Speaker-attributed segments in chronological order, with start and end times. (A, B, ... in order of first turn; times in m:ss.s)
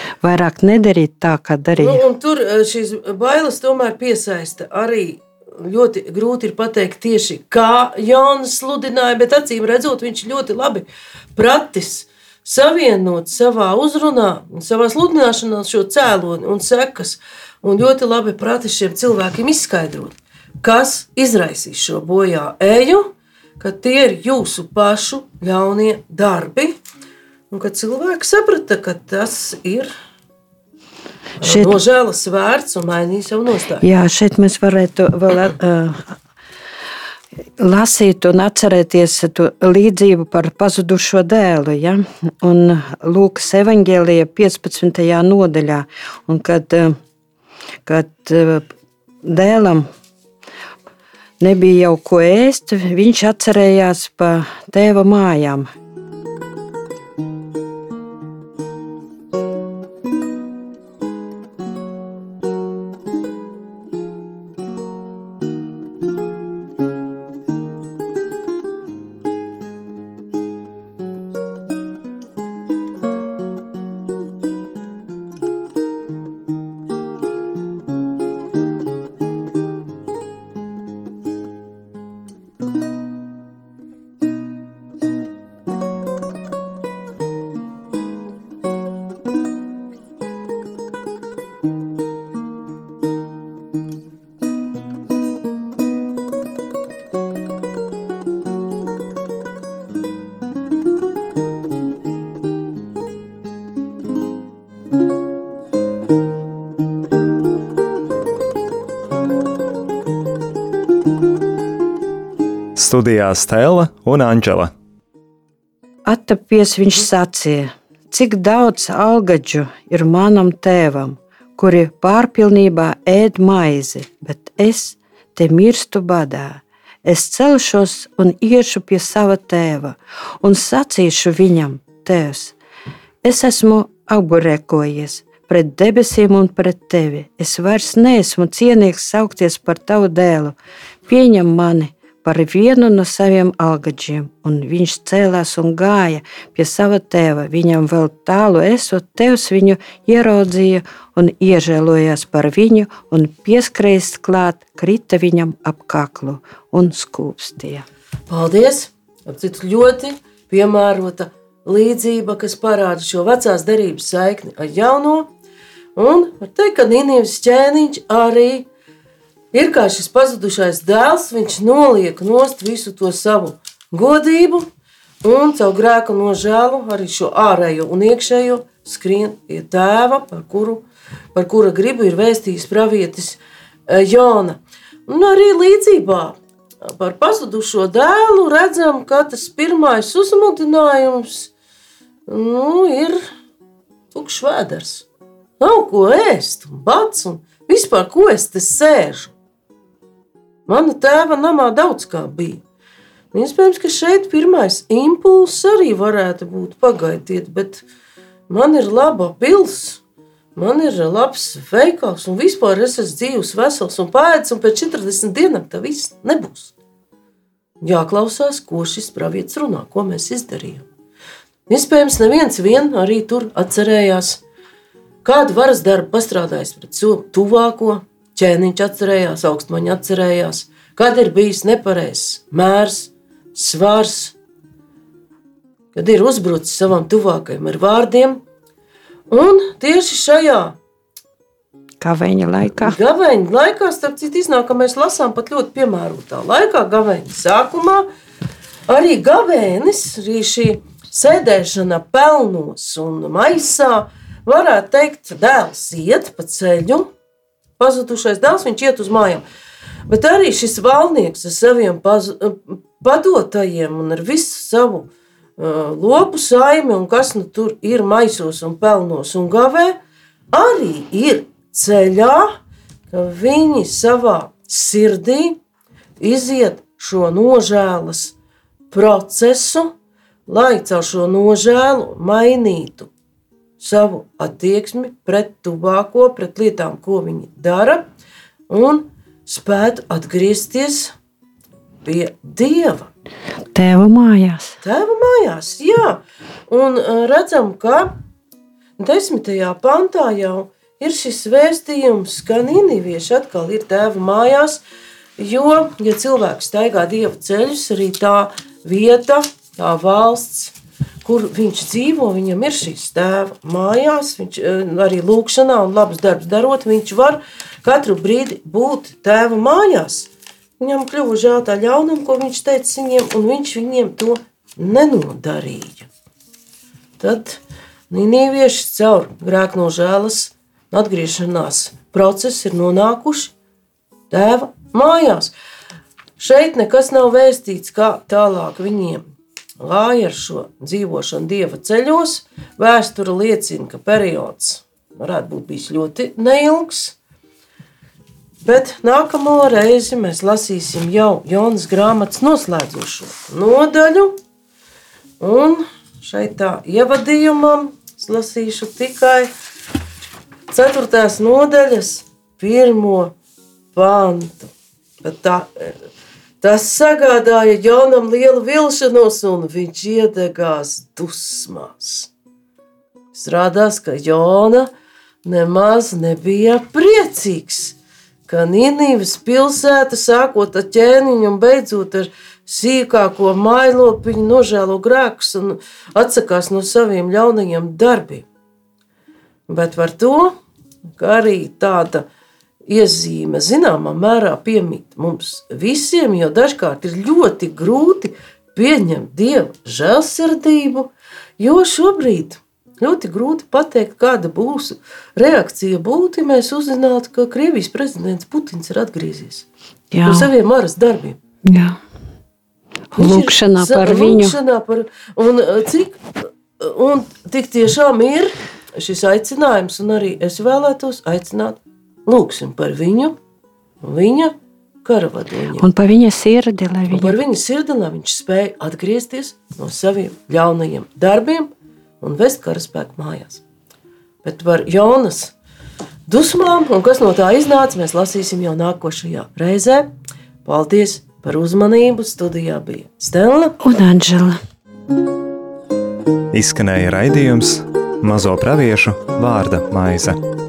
0:00.2-0:02.0 A
0:01.8-0:26.8 B
0:27.5-0:29.9 B
0:31.4-0:33.9 B
0:31.4-0:31.8 A
0:33.8-0:36.2 A
0:37.6-0:47.0 A
0:47.8-0:48.7 A
0:49.2-0:49.9 A
0:51.4-0:55.7 A
1:52.8-1:54.7 C
1:56.0-2:12.5 A
2:13.2-2:37.8 A
2:38.3-2:45.3 B
2:46.0-2:48.7 B
2:49.5-2:54.7 B
2:55.2-3:11.5 B
3:12.3-3:13.2 B
3:14.1-3:15.1 B
3:15.6-3:19.3 B
3:20.7-3:22.6 B
3:23.3-3:27.8 B
3:28.5-3:30.0 B
3:30.6-3:36.7 B
3:37.8-3:40.8 B
3:41.7-3:44.4 B
3:45.2-3:54.4 B
3:55.9-3:58.4 B
3:59.3-4:00.8 B
4:02.0-4:03.0 A
4:02.8-4:08.1 B
4:08.9-4:17.1 B
4:17.8-4:19.4 B
4:20.1-4:30.0 B
4:30.5-4:32.6 B
4:33.1-4:35.6 B
4:36.2-4:38.4 B
4:38.9-4:39.9 B
4:40.5-4:43.1 B
4:43.8-4:48.0 B
4:48.7-4:51.1 B
4:52.0-4:53.1 B
4:53.7-4:54.8 A
4:54.8-4:58.1 B
4:59.0-5:04.8 B
5:05.4-5:26.1 B
5:27.2-5:33.5 B
5:34.3-5:35.5 B
5:36.4-5:39.2 B
5:39.8-5:47.2 B
5:48.6-5:54.4 B
5:55.4-5:59.5 B
6:00.7-6:03.3 B
6:03.9-6:04.7 B
6:05.2-6:06.0 B
6:06.6-6:12.3 B
6:13.3-6:14.9 B
6:15.4-6:28.5 B
6:29.7-6:30.5 B
6:31.2-6:32.2 B
6:32.9-6:49.6 B
6:50.1-6:50.5 A
6:50.2-6:51.4 B
6:51.6-6:52.0 A
6:53.1-7:03.4 B
6:53.1-6:54.6 A
7:04.0-7:05.9 B
7:05.8-7:07.4 A
7:07.1-7:13.6 B
7:14.4-7:15.5 B
7:16.3-7:20.1 B
7:20.6-7:23.8 B
7:23.8-7:24.6 A
7:26.5-7:30.4 C